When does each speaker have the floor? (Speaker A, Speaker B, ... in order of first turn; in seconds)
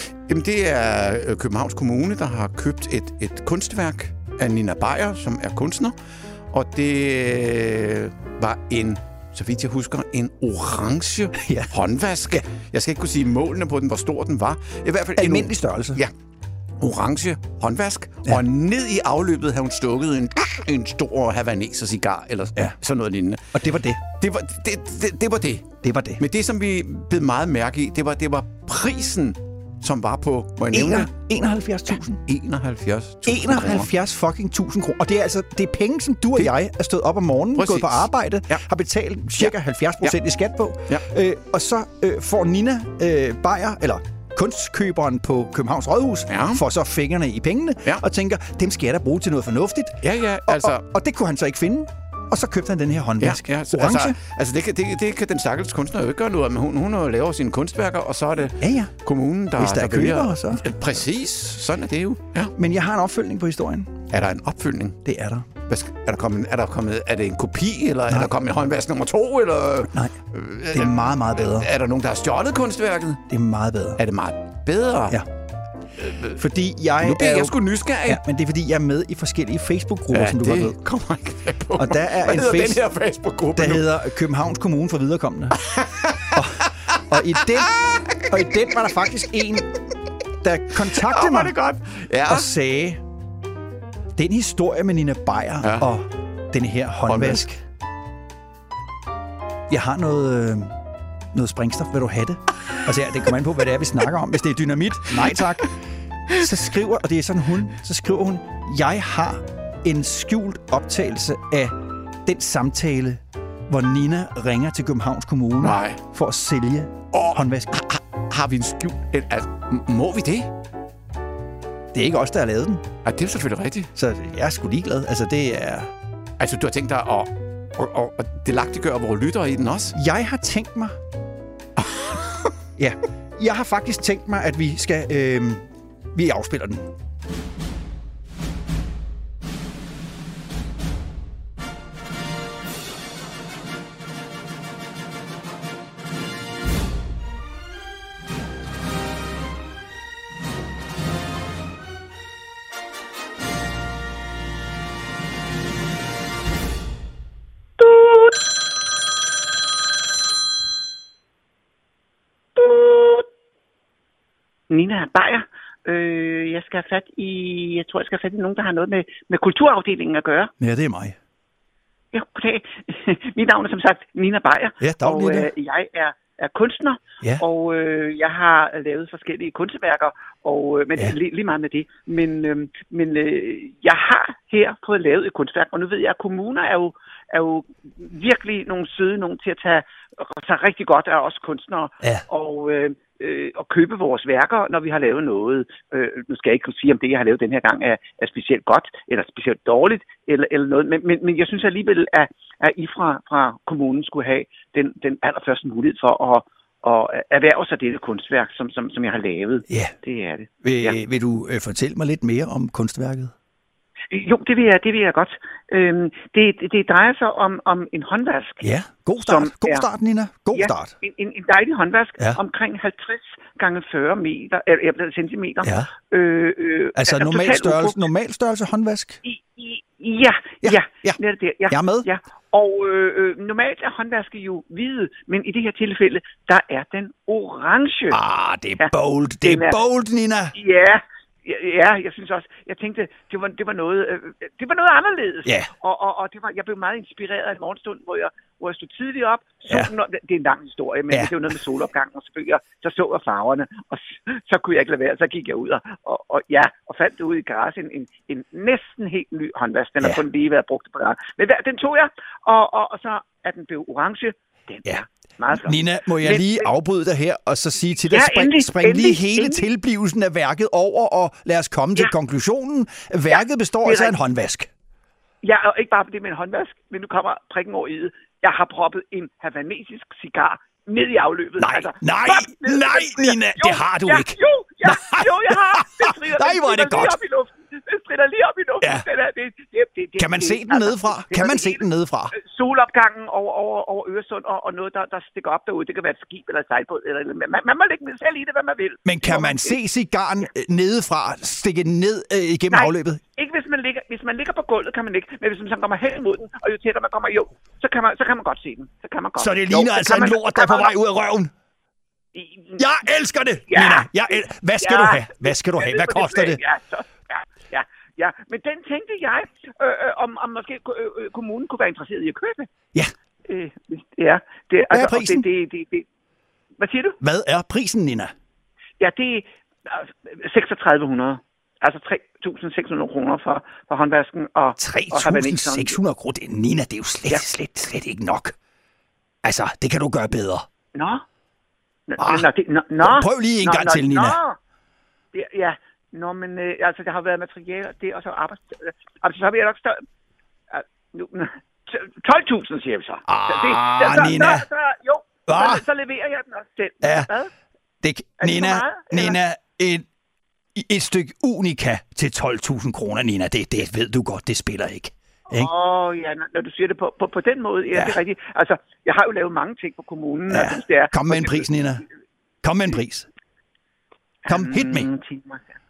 Speaker A: 0.3-6.0, 6.5-16.1, 16.8-23.5, 24.2-31.1, 32.2-33.9, 37.6-38.6, 39.4-40.1, 46.3-46.6, 50.0-50.8, 53.2-62.5, 64.1-65.0, 65.7-73.2, 74.0-75.2, 76.0-76.4, 77.0-78.2, 80.1-84.0, 85.6-86.4, 90.9-92.5, 95.6-95.9, 97.0-97.4, 115.6-116.0, 117.1-120.5, 123.0-123.9, 126.4-129.9, 131.8-132.4
Speaker B: 11.3-11.7, 15.2-16.0, 23.5-24.0, 25.8-26.2, 30.7-32.2, 33.2-54.2, 58.6-58.9, 59.5-60.6, 62.6-63.9, 65.0-65.5, 70.7-71.7, 73.3-74.0, 76.3-80.8, 81.8-82.8, 83.5-85.6, 86.3-89.7, 90.4-91.5, 92.2-93.0, 94.2-97.6, 99.7-100.7, 101.3-105.7, 106.3-111.7, 112.2-117.7, 121.9-122.8, 124.0-125.9, 129.9-131.0, 132.8-136.9, 170.6-171.2, 174.8-175.5, 209.7-209.9, 210.6-213.3, 218.6-220.9, 225.6-225.9, 226.9-229.2, 230.6-232.1, 238.1-240.5, 245.4-245.7, 265.6-274.7, 281.6-287.1, 290.2-292.3, 299.0-303.2, 309.4-311.5, 312.8-316.6, 324.9-325.4, 327.2-328.3, 334.8-338.5, 339.4-340.6, 342.2-342.5, 343.0-344.4, 353.3-354.6, 355.5-355.8, 357.0-357.3, 358.0-360.0, 360.7-365.7, 367.9-368.2, 370.5-372.0, 372.6-373.3, 374.5-375.1
Speaker C: 157.8-158.5, 162.6-163.2, 164.7-170.5, 172.1-211.0, 214.1-219.9, 220.5-228.0, 229.2-238.2, 239.4-239.8, 240.5-266.7, 268.1-269.7, 273.3-274.2, 275.4-299.8, 302.7-310.9, 312.3-312.8, 313.7-322.7, 323.5-326.0, 326.8-327.2, 329.0-336.0, 340.9-341.2, 342.1-344.6, 345.3-350.0, 350.7-357.5, 358.4-359.4, 365.5-371.7, 374.4-375.6